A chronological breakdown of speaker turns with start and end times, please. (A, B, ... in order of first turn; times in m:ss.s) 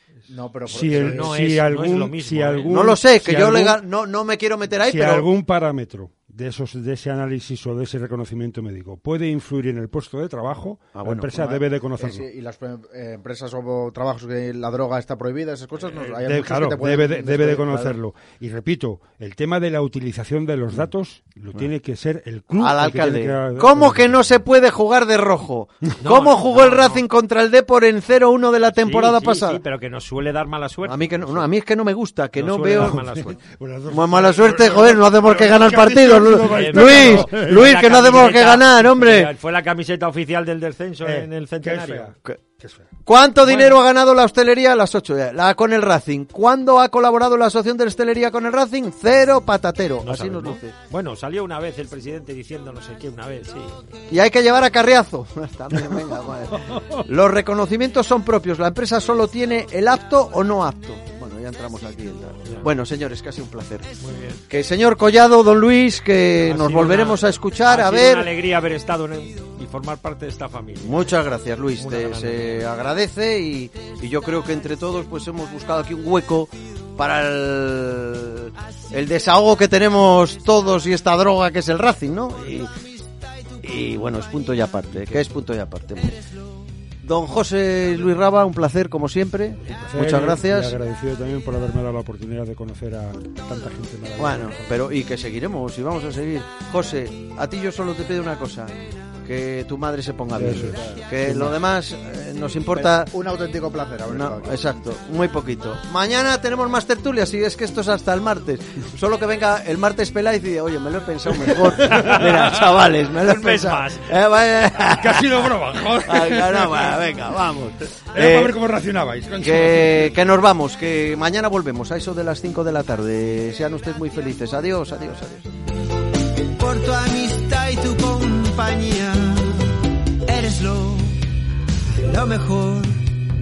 0:00.3-0:01.4 A
0:00.7-0:03.8 B
0:00.7-0:02.7 C
0:02.7-0:05.3 D
0:04.8-0:12.2 B
0:10.9-0:11.5 D
0:11.4-0:18.0 A
0:16.1-0:24.4 B
0:22.6-0:29.6 D
0:26.0-0:27.0 C
0:28.7-0:31.5 C
0:30.8-0:33.3 D
0:32.4-0:33.4 C
0:32.9-0:37.8 B
0:33.9-0:39.3 D
0:36.4-0:42.1 C
0:41.0-0:42.9 B
0:43.0-0:50.8 D
0:43.5-0:43.8 C
0:50.0-0:53.9 C
0:54.1-1:03.9 D
0:56.8-0:57.0 B
1:02.4-1:02.7 C
1:04.0-1:04.4 C
1:04.5-1:08.3 D
1:06.4-1:11.2 C
1:10.8-1:22.7 D
1:11.8-1:12.7 C
1:23.6-1:26.2 D
1:27.0-1:30.8 D
1:29.6-1:35.0 B
1:34.2-1:43.1 D
1:40.3-1:41.6 B
1:42.7-1:44.7 A
1:44.1-1:58.6 D
1:51.9-1:54.2 C
1:54.8-1:57.2 B
1:58.1-2:00.3 B
1:59.4-2:05.5 D
2:06.6-2:09.7 E
2:10.3-2:11.2 E
2:12.0-2:13.0 E